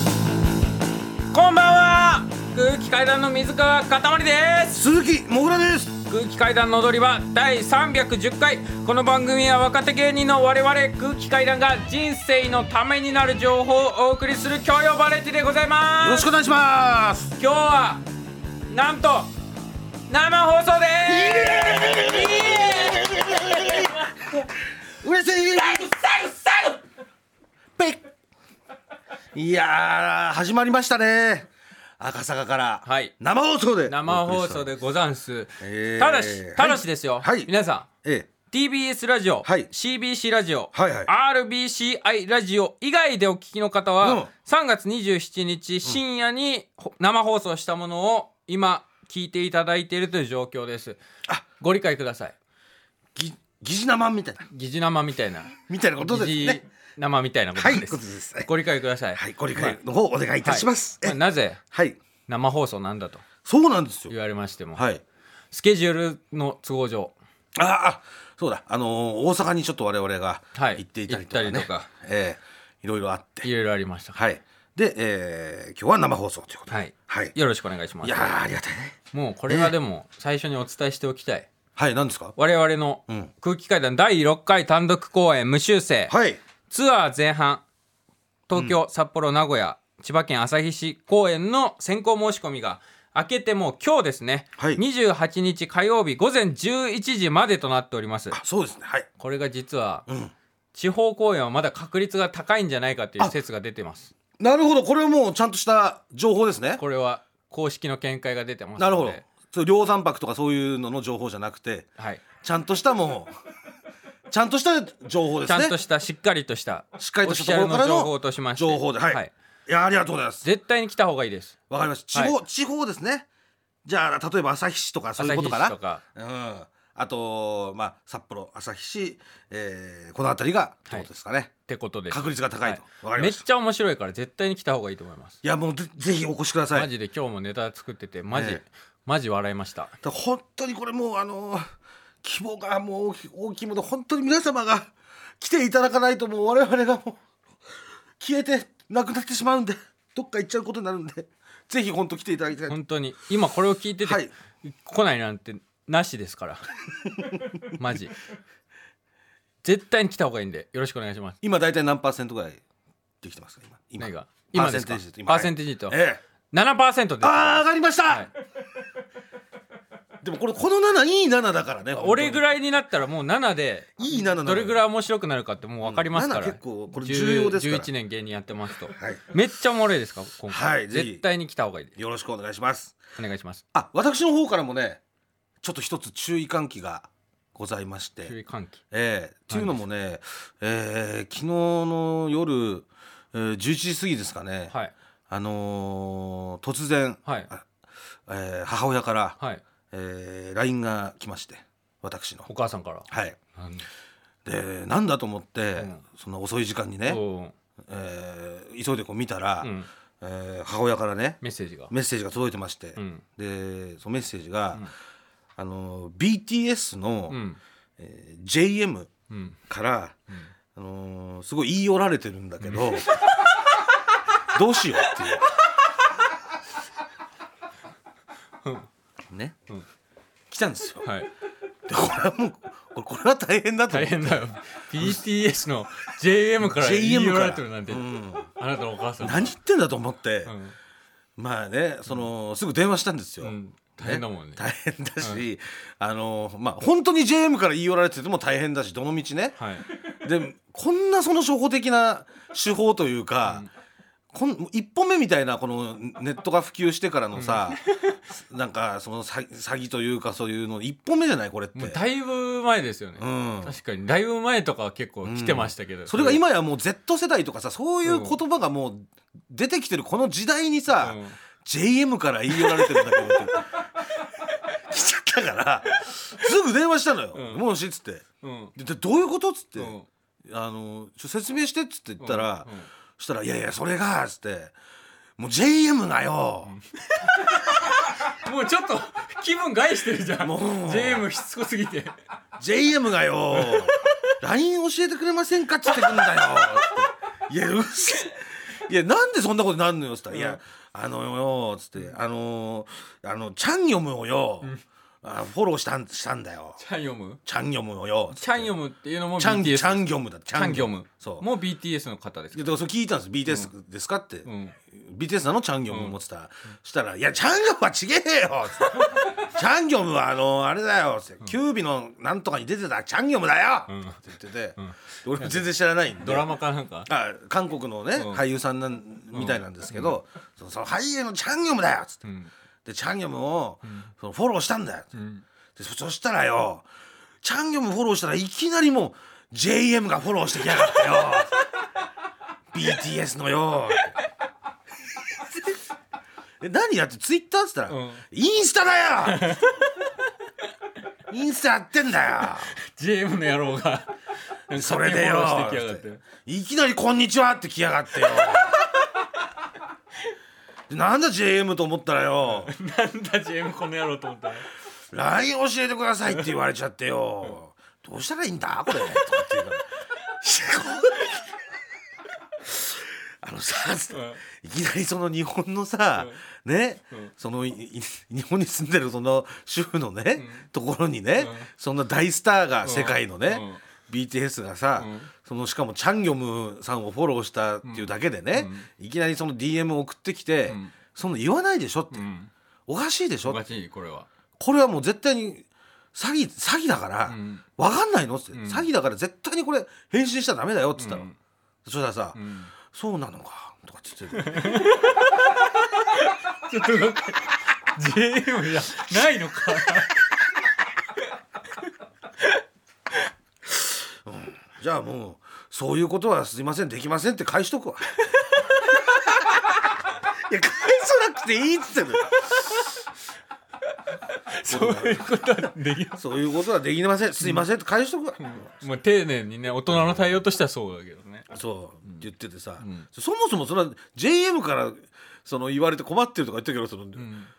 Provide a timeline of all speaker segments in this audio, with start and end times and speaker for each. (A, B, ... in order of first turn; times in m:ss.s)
0:01.3-0:04.8 A
0:04.7-0:05.9 B
0:06.0-0:16.3 A
0:16.0-0:17.3 B
0:17.4-0:18.0 A
0:18.7-0:19.3 A
0:20.1-0:23.8 A
0:21.1-0:24.4 B
0:25.0-0:26.7 B
0:29.3-0:31.5 B
0:32.0-0:34.7 B
0:32.8-0:33.1 A
0:33.9-0:37.9 A
0:35.6-0:37.5 B
0:38.5-0:51.0 A
0:39.4-0:39.7 B
0:40.7-0:41.1 B
0:44.0-0:44.3 B
0:51.6-0:52.3 A
0:53.2-0:54.5 B
0:54.5-0:59.8 A
0:55.7-0:56.6 B
0:57.6-0:58.5 B
0:59.2-1:01.2 B
1:00.4-1:01.6 A
1:01.7-1:02.0 B
1:02.3-1:03.2 A
1:03.4-1:04.1 B
1:04.1-1:04.8 A
1:04.8-1:05.0 B
1:05.5-1:07.1 A
1:07.6-1:13.5 B
1:10.5-1:11.9 A
1:13.4-1:14.2 A
1:14.1-1:17.4 B
1:16.7-1:18.4 A
1:18.0-1:19.0 B
1:19.1-1:21.5 A
1:19.5-1:19.7 B
1:21.8-1:22.4 B
1:22.4-1:26.1 A
1:26.1-1:26.4 B
1:26.7-1:27.6 A
1:28.5-1:38.4 A
1:38.3-1:39.1 B
1:39.2-1:40.0 A
1:40.7-1:44.1 A
1:44.4-1:46.8 B
1:46.8-1:49.2 A
1:48.8-1:51.9 B
1:52.4-1:53.3 B
1:54.3-1:55.8 B
1:55.5-1:59.3 A
1:57.0-2:00.4 B
2:00.4-2:01.5 A
2:01.7-2:03.3 B
2:03.8-2:11.6 B
2:05.2-2:06.0 A
2:11.7-2:15.4 A
2:12.1-2:13.4 B
2:15.4-2:16.9 B
2:16.7-2:19.9 A
2:18.3-2:18.6 B
2:20.0-2:21.7 B
2:22.2-2:27.2 B
2:28.2-2:32.8 B
2:32.7-2:36.6 A
2:34.0-2:34.3 B
2:37.7-2:38.1 A
2:39.6-2:41.4 A
2:41.4-2:42.6 B
2:43.2-2:46.2 B
2:44.0-2:46.0 A
2:46.5-2:48.3 A
2:47.2-2:48.3 B
2:50.2-2:52.5 B
2:52.0-3:01.9 A
2:54.0-2:54.8 B
2:55.8-2:57.9 B
2:59.0-2:59.2 B
3:00.5-3:01.2 B
3:02.0-3:03.0 B
3:03.2-3:03.6 A
3:03.7-3:05.0 B
3:05.6-3:08.3 B
3:08.2-3:08.8 A
3:08.9-3:14.7 B
3:09.5-3:09.8 A
3:15.3-3:17.6 B
3:18.3-3:19.4 B
3:19.9-3:22.5 B
3:22.4-3:23.0 A
3:23.1-3:23.4 B
3:23.6-3:23.8 A
3:24.4-3:27.2 B
3:27.0-3:27.5 A
3:27.9-3:34.8 B
3:29.6-3:29.9 A
3:31.4-3:31.9 A
3:33.0-3:33.2 A
3:35.6-3:37.4 B
3:37.3-3:37.6 A
3:38.0-3:39.1 B
3:39.3-3:39.6 A
3:39.7-3:40.2 B
3:40.7-3:43.4 B
3:42.6-3:43.3 A
3:44.5-3:45.4 B
3:49.3-3:49.6 B
3:50.5-3:51.1 B
3:51.0-3:51.3 A
3:51.9-3:54.4 B
3:53.9-3:59.5 A
3:56.6-3:58.5 B
3:59.2-4:00.5 B
4:00.4-4:00.7 A
4:01.4-4:09.6 B
4:03.4-4:04.6 A
4:09.6-4:09.9 A
4:10.2-4:13.6 B
4:14.3-4:17.8 B
4:17.4-4:18.1 A
4:18.4-4:22.0 B
4:21.8-4:26.4 A
4:23.2-4:23.7 B
4:25.2-4:33.7 B
4:28.0-4:28.4 A
4:31.0-4:31.3 A
4:32.5-4:33.6 A
4:34.9-4:39.9 B
4:37.3-4:37.6 A
4:38.4-4:38.7 A
4:39.8-4:40.0 A
4:40.5-4:44.7 B
4:42.2-4:42.8 A
4:45.4-4:46.7 B
4:46.6-4:52.1 A
4:50.4-4:51.2 B
4:52.6-5:04.7 B
4:53.5-4:54.1 A
4:56.0-4:56.8 A
5:00.3-5:00.6 A
5:05.2-5:06.8 B
5:06.8-5:07.4 A
5:07.4-5:08.7 B
5:08.4-5:12.7 A
5:09.4-5:11.4 B
5:12.5-5:26.5 B
5:14.4-5:14.7 A
5:15.9-5:16.1 A
5:23.9-5:24.2 A
5:24.8-5:25.6 A
5:26.2-5:27.1 A
5:27.1-5:32.2 B
5:29.3-5:30.2 A
5:32.2-5:32.5 A
5:32.8-5:35.1 B
5:35.1-5:35.4 A
5:35.8-5:36.8 B
5:37.4-5:41.6 B
5:42.7-5:44.1 B
5:46.6-5:49.5 B
5:47.9-5:48.2 A
5:49.2-5:49.9 A
5:51.3-5:52.7 B
5:52.9-5:54.1 A
5:54.7-5:56.2 A
5:54.7-5:58.8 B
5:58.4-5:58.7 A
6:00.9-6:02.7 B
6:02.6-6:04.6 A
6:05.1-6:09.8 B
6:10.4-6:11.4 B
6:12.7-6:12.9 B
6:13.4-6:32.2 B
6:14.1-6:14.4 A
6:20.4-6:20.6 A
6:21.4-6:21.7 A
6:22.8-6:23.8 A
6:25.0-6:25.3 A
6:27.8-6:28.9 A
6:30.7-6:30.9 A
6:32.1-6:32.5 A
6:32.9-6:33.6 B
6:33.4-6:34.3 A
6:34.6-6:41.2 B
6:37.3-6:37.6 A
6:38.5-6:38.8 A
6:41.0-6:41.3 A
6:41.8-6:42.4 B
6:42.3-6:42.7 A
6:42.9-6:44.8 B
6:44.4-6:50.2 A
6:54.2-6:58.1 B
6:58.5-6:59.2 A
7:00.5-7:02.4 B
7:02.3-7:02.8 A
7:04.5-7:06.2 A
7:04.7-7:08.6 B
7:08.4-7:11.4 A
7:09.9-7:10.2 B
7:11.5-7:17.3 B
7:12.8-7:13.1 A
7:17.2-7:17.5 A